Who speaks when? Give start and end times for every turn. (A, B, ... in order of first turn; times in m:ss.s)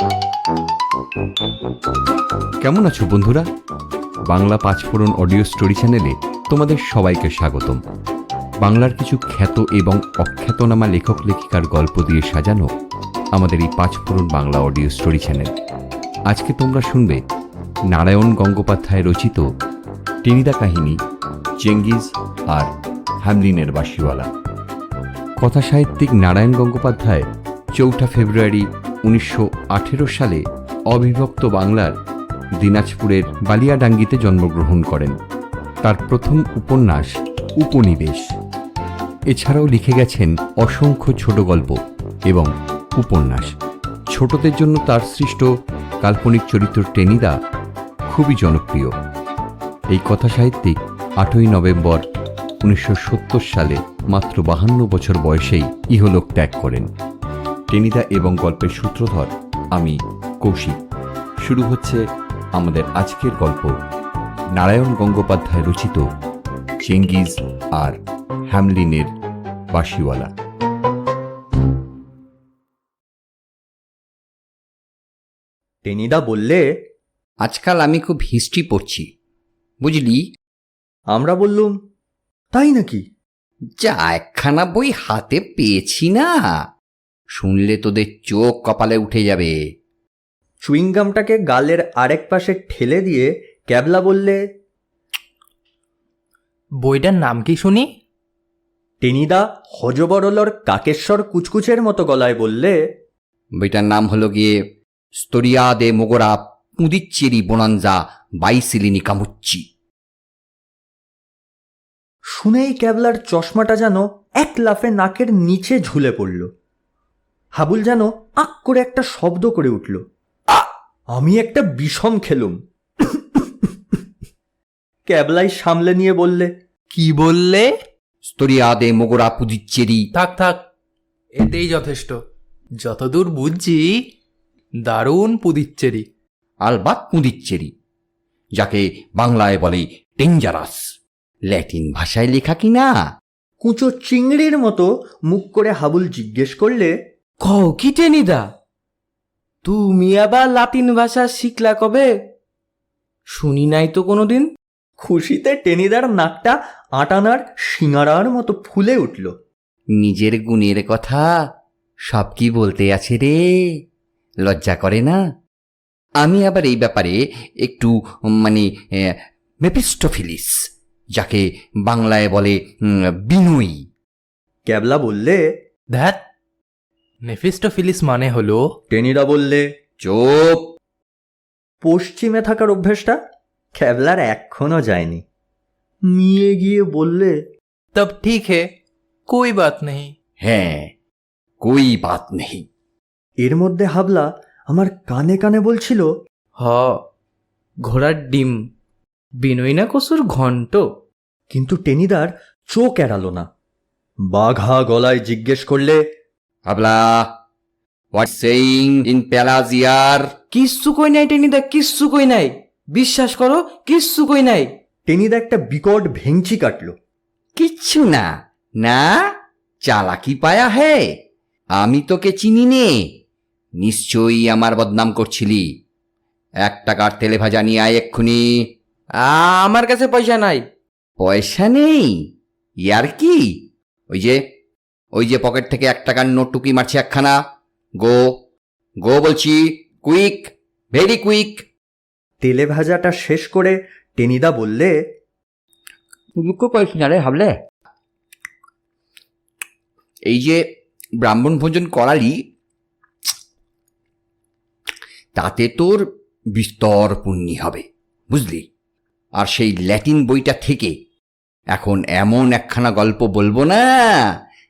0:02.6-0:03.5 A
0:04.3-0:07.8 A
0:08.6-0:12.7 A
0:13.3-0:15.5 A
0:16.3-0:17.2 A
0:17.9-0:19.4 A
0:20.2-0:21.0 A
0:21.6-0:22.7 A
0:23.2-0:24.3 A
0:25.4-0:31.9 A
0:32.6-0:35.2 A
0:35.8-0:38.2 A
0:39.3-0:41.8 A
0:42.3-0:43.5 A
0:44.1-0:45.5 A
0:46.0-0:47.3 A
0:48.1-0:48.9 A
0:49.9-0:52.0 A
0:52.6-0:56.9 A
0:57.7-1:00.8 A
1:01.4-1:02.0 A
1:02.6-1:03.7 A
1:04.6-1:06.0 A
1:06.8-1:08.0 A
1:08.5-1:09.1 A
1:09.7-1:10.3 A
1:15.8-1:16.6 B
1:17.4-1:19.0 A
1:19.8-1:20.2 A
1:21.1-1:21.7 B
1:22.5-1:23.0 B
1:23.8-1:26.3 A
1:27.4-1:29.6 A
1:30.6-1:34.4 B
1:36.8-1:37.8 C
1:39.0-1:42.8 B
1:43.6-1:44.5 A
1:45.2-1:49.6 A
1:52.3-1:56.5 B
1:57.6-2:00.0 B
2:01.1-2:02.6 B
2:05.1-2:06.5 B
2:06.9-2:07.7 C
2:08.2-2:10.0 A
2:10.1-2:10.6 C
2:11.4-2:12.2 C
2:12.8-2:13.9 C
2:14.8-2:16.0 C
2:16.6-2:17.7 A
2:18.6-2:20.8 A
2:21.5-2:22.9 A
2:23.6-2:26.9 B
2:27.4-2:28.5 D
2:29.6-2:32.1 D
2:33.3-2:34.5 D
2:35.0-2:39.3 B
2:40.0-2:41.3 A
2:42.1-2:43.4 A
2:44.4-2:45.2 A
2:46.2-2:50.6 A
2:51.2-2:53.8 A
2:54.7-2:55.4 B
2:55.9-2:56.2 C
2:57.2-2:58.6 C
2:58.9-2:59.6 B
3:00.0-3:00.6 A
3:01.8-3:03.2 B
3:03.8-3:05.2 B
3:06.1-3:07.3 B
3:07.9-3:08.6 C
3:09.3-3:10.1 C
3:10.4-3:10.9 A
3:11.6-3:12.6 A
3:13.4-3:16.1 B
3:16.6-3:17.0 D
3:17.8-3:18.6 D
3:19.4-3:20.8 D
3:21.5-3:23.5 B
3:24.3-3:26.0 B
3:26.7-3:27.3 A
3:28.1-3:30.2 A
3:30.5-3:34.7 D
3:35.1-3:36.9 B
3:37.6-3:38.3 A
3:38.8-3:39.2 A
3:39.8-3:41.1 A
3:41.8-3:43.0 A
3:43.8-3:45.6 A
3:46.6-3:48.4 A
3:49.2-3:50.6 D
3:51.2-3:52.2 A
3:52.9-3:53.5 A
3:54.1-3:54.4 A
3:55.2-3:57.4 A
3:58.0-3:58.3 A
3:59.0-4:01.6 A
4:02.4-4:04.9 B
4:06.4-4:07.5 A
4:10.3-4:10.6 A
4:11.2-4:12.4 A
4:15.4-4:18.6 A
4:19.4-4:20.9 A
4:21.7-4:24.2 A